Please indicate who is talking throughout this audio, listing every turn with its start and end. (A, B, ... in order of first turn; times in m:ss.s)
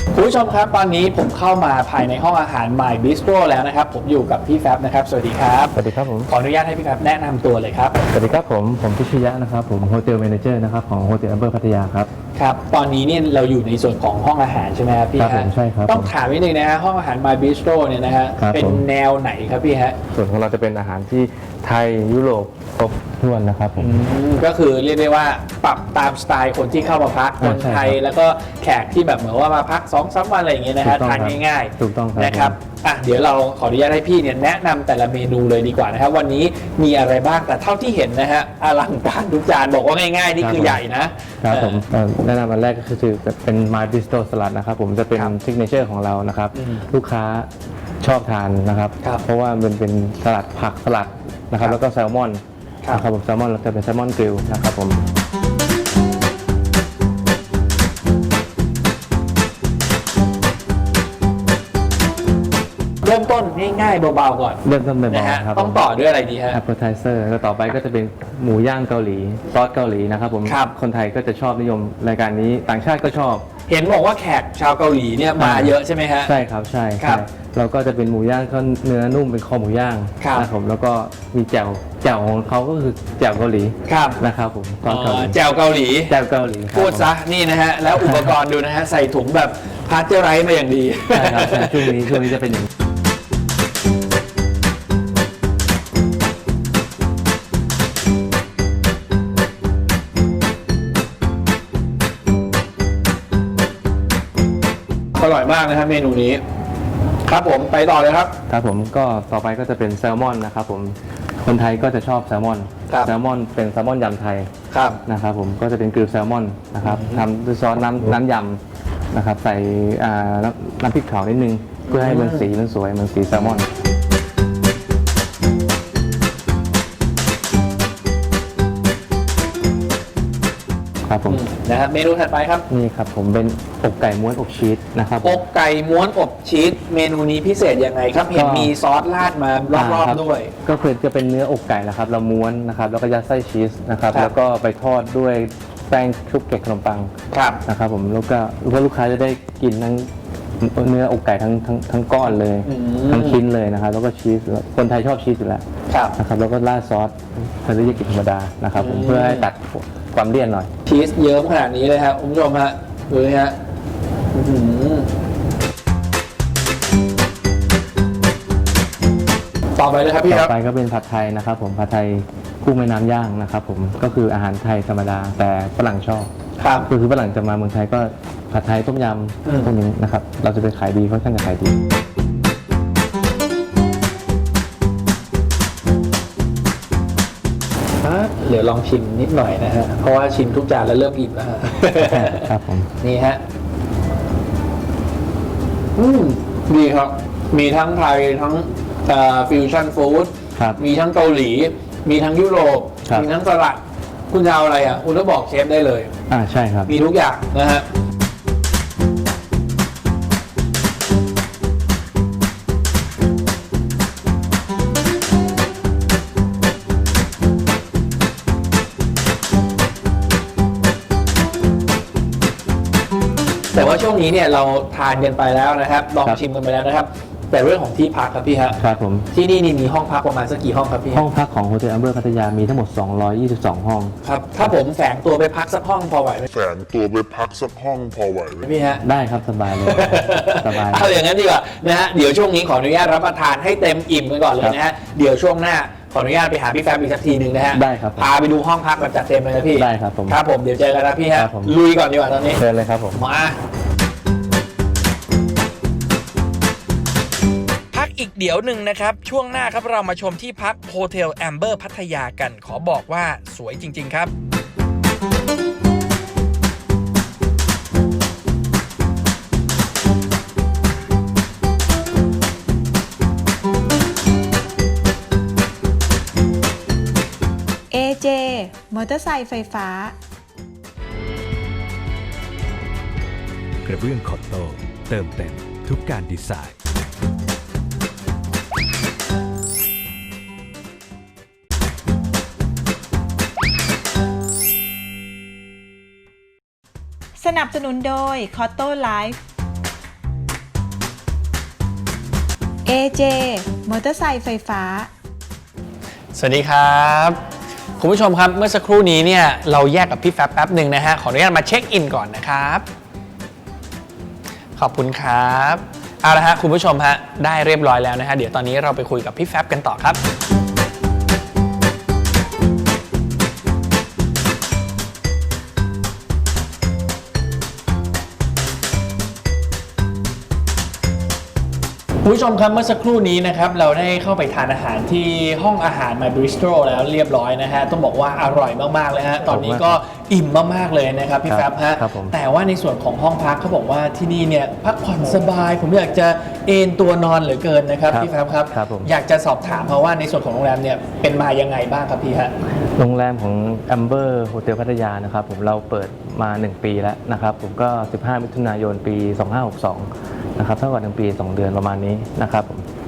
0:00.1-0:05.8 A
0:05.7-0:06.3 B
0:06.3-0:08.0 A
0:08.1-0:12.1 B
0:12.4-0:20.0 A
0:15.2-0:16.1 B
0:18.4-0:18.8 B
0:20.1-0:24.0 B
0:23.8-0:41.8 A
0:27.4-0:28.0 B
0:30.8-0:32.6 B
0:40.4-0:40.8 B
0:41.4-0:47.5 B
0:46.5-0:46.8 A
0:48.0-0:55.1 B
1:03.0-1:06.6 A
1:04.6-1:05.8 B
1:06.5-1:13.4 B
1:13.7-1:16.3 A
1:15.4-1:25.4 B
1:23.9-1:24.2 A
1:24.9-1:26.0 A
1:26.0-1:27.1 B
1:26.7-1:32.1 A
1:27.9-1:28.3 B
1:31.1-1:32.7 B
1:45.1-1:46.4 A
1:47.3-1:48.3 A
1:48.5-1:54.5 B
1:54.7-1:55.0 A
1:55.0-1:58.6 B
1:56.8-1:57.2 A
1:59.1-2:03.7 B
2:01.9-2:02.5 A
2:11.0-2:11.4 B
2:11.3-2:12.6 A
2:12.7-2:15.4 B
2:15.2-2:20.5 A
2:18.3-2:18.7 B
2:19.7-2:27.1 B
2:27.3-2:27.6 A
2:27.6-2:30.1 B
2:30.6-2:35.6 B
2:32.6-2:33.4 A
2:36.2-2:40.7 B
2:38.8-2:39.5 A
2:40.8-2:43.6 A
2:44.3-2:45.1 A
2:49.8-2:50.5 A
2:50.3-2:56.3 B
2:56.6-2:56.8 A
2:56.8-3:01.7 B
2:59.4-2:59.7 A
3:08.0-3:12.5 A
3:12.0-3:12.9 B
3:13.0-3:13.4 A
3:16.0-3:23.8 A
3:24.3-3:26.1 A
3:26.3-3:26.9 B
3:26.9-3:27.8 A
3:43.7-3:48.8 A
3:48.8-3:49.3 B
3:49.3-3:51.2 A
3:51.1-3:54.1 B
3:54.2-3:56.4 A
3:56.5-3:58.7 C
3:58.6-3:59.0 A
3:59.0-4:01.1 B
3:59.8-4:12.6 A
4:07.7-4:08.3 B
4:09.7-4:10.4 B
4:11.3-4:11.8 B
4:12.5-4:13.2 B
4:13.1-4:13.6 A
4:17.9-4:24.3 D
4:37.9-4:40.2 E
4:43.8-4:46.8 F
4:57.4-4:59.4 E
5:02.8-5:05.1 E
5:06.3-5:07.4 A
5:08.0-5:12.8 A
5:14.8-5:20.2 A
5:32.2-5:52.5 A
5:39.5-5:40.0 B
5:41.5-5:42.3 B
5:48.1-5:49.1 B
5:53.0-6:02.8 B